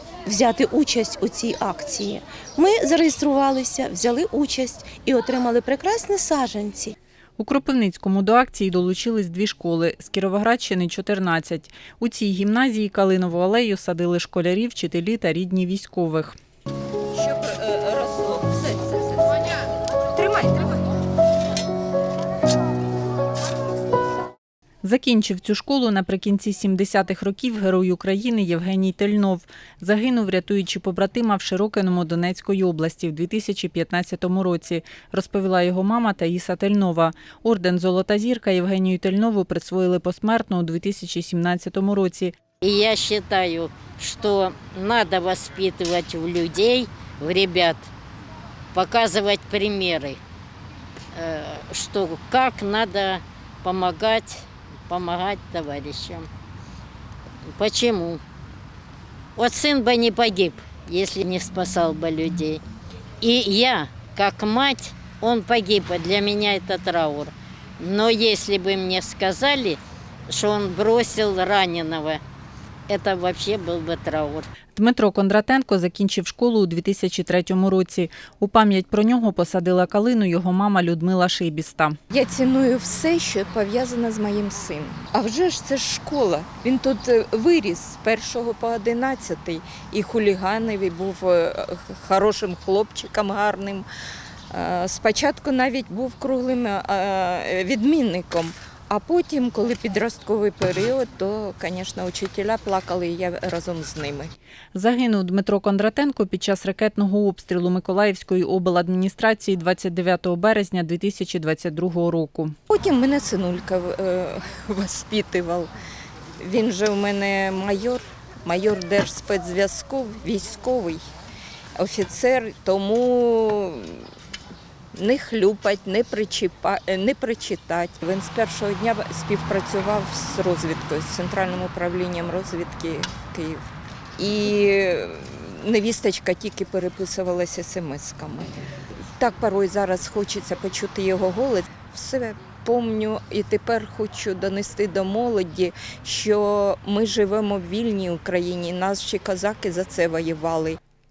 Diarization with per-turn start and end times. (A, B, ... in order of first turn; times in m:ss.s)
0:00.2-0:07.0 A
0:07.4-0:16.4 B
0:17.1-0:19.4 C
0:20.1-0:20.8 C
0:24.8-0:42.3 B
0:42.6-0:47.9 D
0:48.7-0:50.2 D
0:51.1-0:56.3 D
0:57.5-0:58.2 D
0:59.4-1:02.6 D
1:03.2-1:12.2 D
1:12.9-1:14.5 D
1:14.7-1:22.0 B
1:22.1-1:33.8 C
1:34.5-1:44.3 C
1:44.7-1:52.5 B
1:52.7-1:55.7 C
1:56.4-2:01.0 C
2:01.8-2:04.1 C
2:04.9-2:13.6 C
2:14.2-2:18.5 C
2:19.2-2:30.8 C